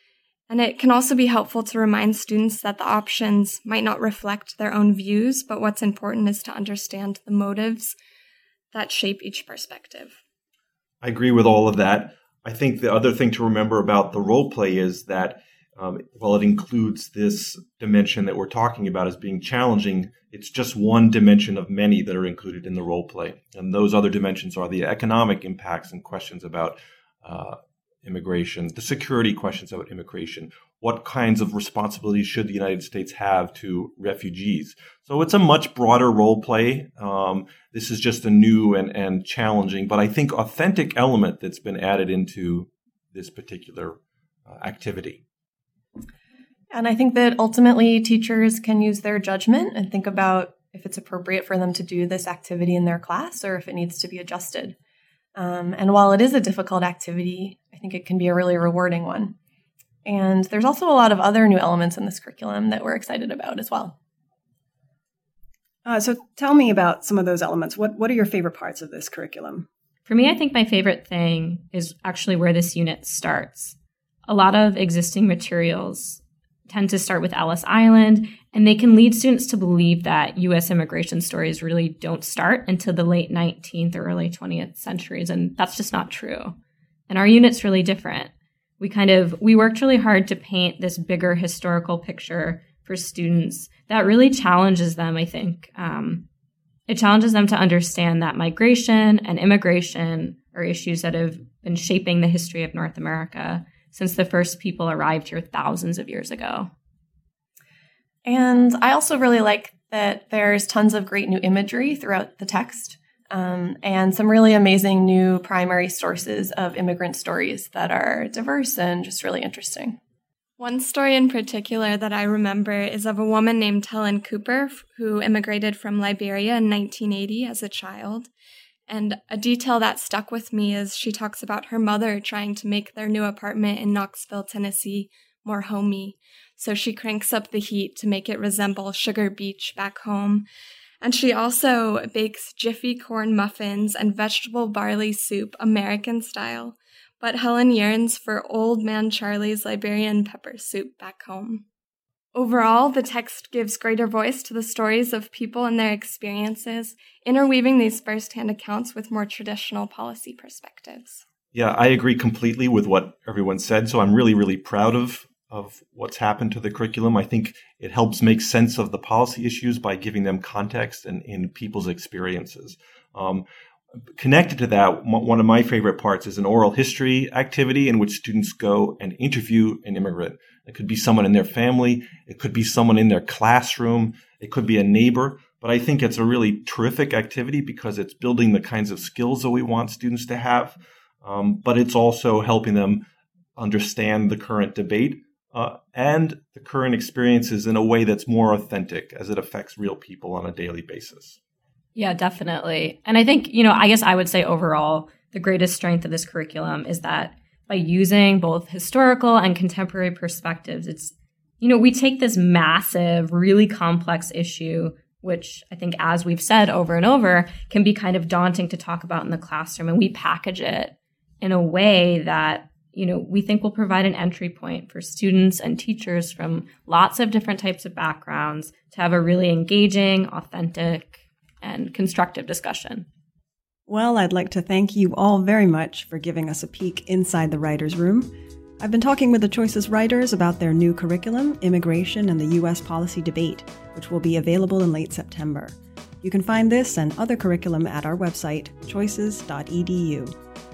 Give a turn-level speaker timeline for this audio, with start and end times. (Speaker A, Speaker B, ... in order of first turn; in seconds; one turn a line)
Speaker A: 0.5-7.9
Speaker A: 8.7-10.2
Speaker B: 11.0-44.0
Speaker B: 44.5-45.2
Speaker C: 46.7-54.7
Speaker C: 55.4-59.3
Speaker C: 60.0-63.9
Speaker D: 65.8-69.7
Speaker E: 70.0-86.5
Speaker E: 87.1-96.2
Speaker E: 96.9-106.7
Speaker C: 108.2-120.0
Speaker A: 120.6-128.3
Speaker A: 128.9-140.4
Speaker A: 141.0-151.6
Speaker A: 152.3-161.2
Speaker B: 161.5-173.4
Speaker B: 174.2-193.0
Speaker B: 193.6-201.4
Speaker E: 201.9-233.1
Speaker D: 233.9-250.3